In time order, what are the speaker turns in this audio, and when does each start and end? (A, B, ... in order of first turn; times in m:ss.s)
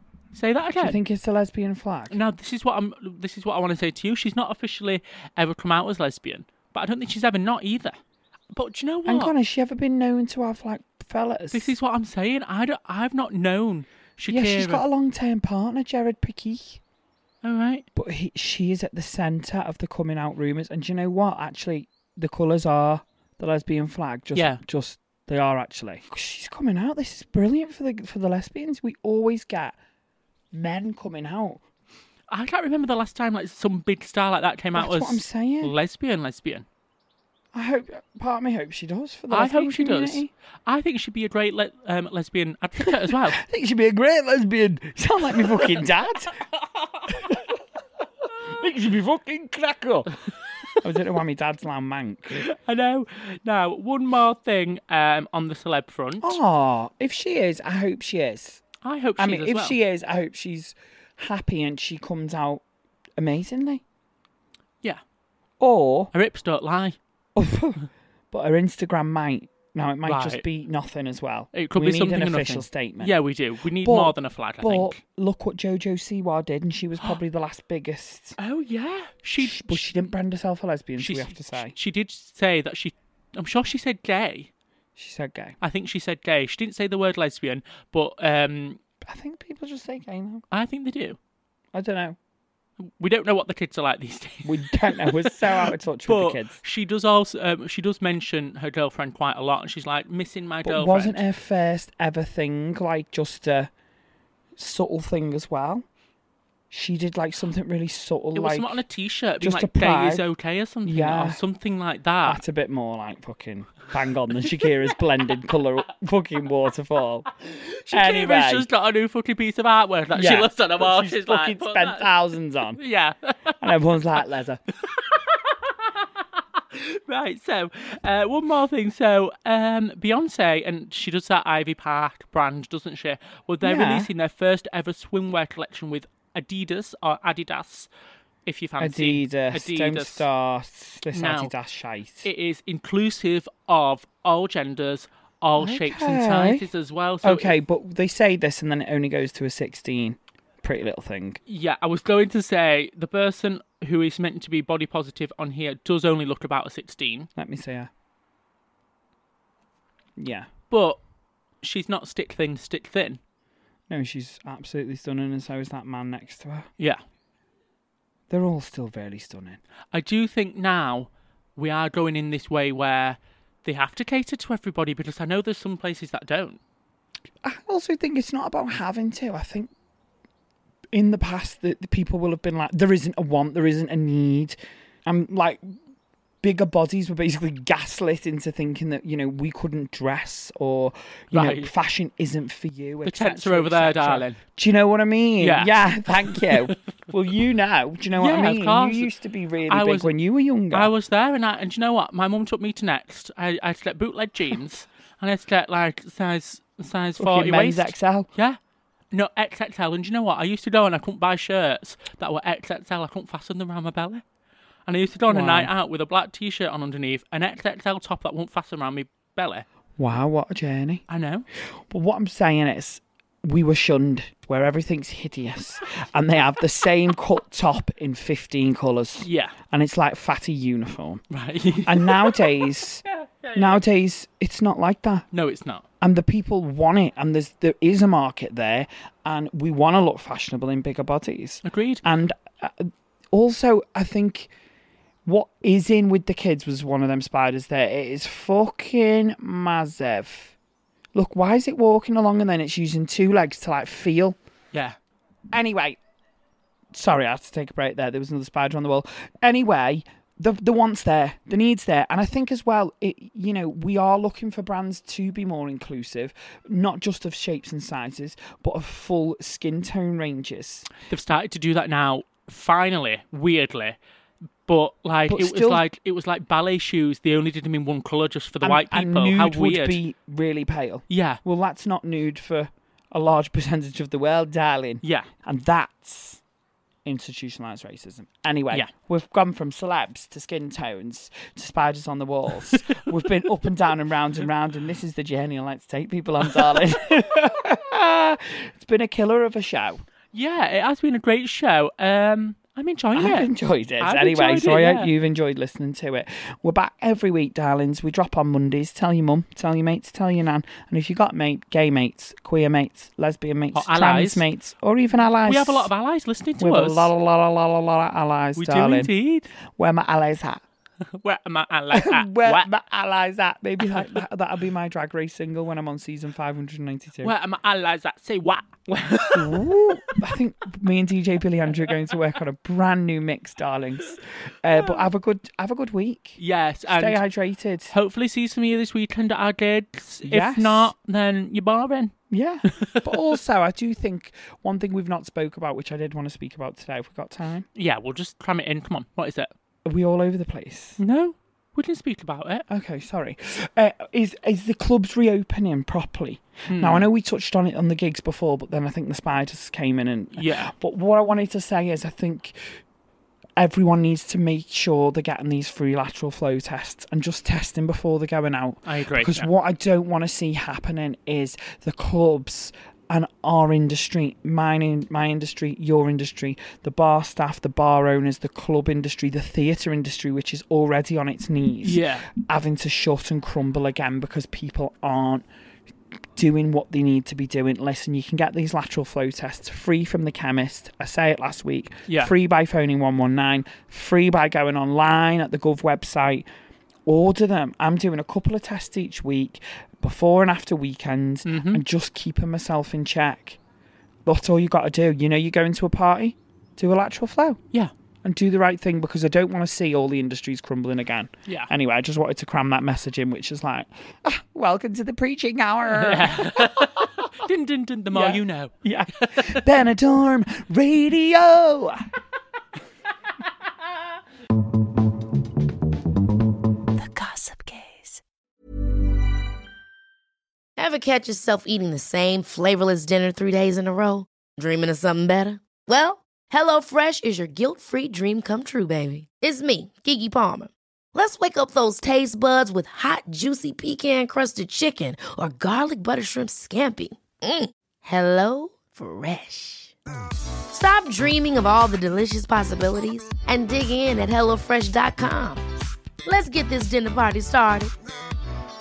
0:00.3-0:01.0 A
0:00.8-0:02.2 B
0:02.1-0:08.0 A
0:08.5-0:09.3 A
0:09.0-0:11.7 B
0:11.5-0:14.8 A
0:14.3-0:16.8 B
0:17.4-0:17.8 A
0:17.9-0:29.8 B
0:24.3-0:24.6 A
0:30.5-0:31.6 B
0:32.3-0:36.6 A
0:34.7-0:35.7 B
0:37.5-0:40.3 B
0:39.3-0:43.4 A
0:42.8-0:46.4 B
0:47.1-0:47.5 B
0:48.4-0:50.2 B
0:50.8-0:52.4 B
0:52.3-0:56.4 A
0:56.2-0:58.6 B
0:58.8-0:59.8 A
0:59.2-1:02.6 B
1:03.2-1:03.8 B
1:05.6-1:06.1 B
1:06.1-1:07.0 A
1:07.4-1:13.1 B
1:10.0-1:10.4 A
1:11.5-1:15.0 A
1:13.8-1:18.4 B
1:18.4-1:19.8 A
1:19.4-1:21.7 B
1:21.0-1:24.5 A
1:25.0-1:25.6 B
1:25.6-1:28.8 A
1:29.0-1:30.4 B
1:30.5-1:31.2 A
1:31.7-1:32.2 B
1:32.8-1:41.2 A
1:34.4-1:36.6 B
1:40.6-1:43.7 B
1:44.6-1:45.8 B
1:46.7-1:48.8 B
1:48.3-1:52.4 A
1:49.4-1:50.2 B
1:50.8-1:51.4 B
1:52.2-1:57.3 B
1:57.5-2:02.1 A
1:57.9-1:58.7 B
2:00.1-2:02.8 B
2:02.8-2:03.7 A
2:03.6-2:04.6 B
2:04.8-2:17.9 A
2:13.6-2:14.1 B
2:18.4-2:20.2 A
2:18.8-2:22.3 B
2:21.1-2:21.5 A
2:22.2-2:27.5 A
2:25.6-2:26.7 B
2:27.2-2:31.4 B
2:31.5-2:37.3 A
2:37.4-2:37.9 B
2:40.2-2:40.5 B
2:40.7-2:41.0 A
2:41.6-2:43.2 A
2:43.9-2:46.7 B
2:48.3-2:49.6 B
2:49.9-2:56.6 A
2:57.4-2:59.7 B
3:00.9-3:05.7 B
3:06.4-3:20.9 B
3:11.3-3:11.7 A
3:13.0-3:14.4 A
3:15.4-3:16.7 A
3:18.2-3:19.1 A
3:19.7-3:20.1 A
3:20.7-3:28.6 A
3:27.2-3:28.3 B
3:29.1-3:34.2 A
3:34.8-3:39.6 A
3:35.3-3:35.7 B
3:40.0-3:41.0 B
3:41.1-3:41.4 A
3:41.7-3:51.2 B
3:49.2-3:49.6 A
3:51.3-3:52.4 A
3:51.8-3:53.0 B
3:53.4-3:53.8 A
3:53.5-3:55.3 B
3:55.3-3:55.8 A
3:56.0-4:04.5 B
4:01.6-4:02.0 A
4:05.2-4:10.5 B
4:11.1-4:14.4 B
4:15.5-4:16.0 B
4:16.9-4:30.9 B
4:31.1-4:34.0 A
4:34.7-4:40.0 A
4:35.3-4:35.8 B
4:38.6-4:46.4 B
4:41.1-4:41.4 A
4:45.0-4:45.3 A
4:47.0-5:00.0 B
5:00.3-5:05.1 A
5:03.1-5:15.9 B
5:13.7-5:14.4 A
5:15.4-5:17.1 A
5:16.6-5:19.1 B
5:18.6-5:19.5 A
5:19.7-5:20.6 B
5:21.2-5:22.7 A
5:21.9-5:27.3 B
5:27.2-5:30.2 A
5:29.3-5:37.9 B
5:36.4-5:37.2 A
5:37.9-5:42.1 A
5:40.2-5:40.9 B
5:42.3-5:47.7 B
5:42.7-5:43.1 A
5:47.7-5:49.5 A
5:49.8-5:51.0 B
5:51.0-5:52.6 A
5:52.7-6:02.6 B
5:56.7-5:57.1 A
6:00.4-6:00.7 A
6:03.6-6:25.4 B
6:08.8-6:09.5 A
6:21.8-6:22.3 A
6:26.3-6:36.4 B
6:32.1-6:32.3 A
6:37.0-6:43.6 B
6:41.4-6:41.8 A
6:44.2-6:47.6 B
6:48.2-6:57.0 B
6:55.9-6:59.6 A
6:58.1-7:02.0 B
7:10.8-7:29.9 C
7:30.7-7:35.6 C
7:36.2-7:37.9 C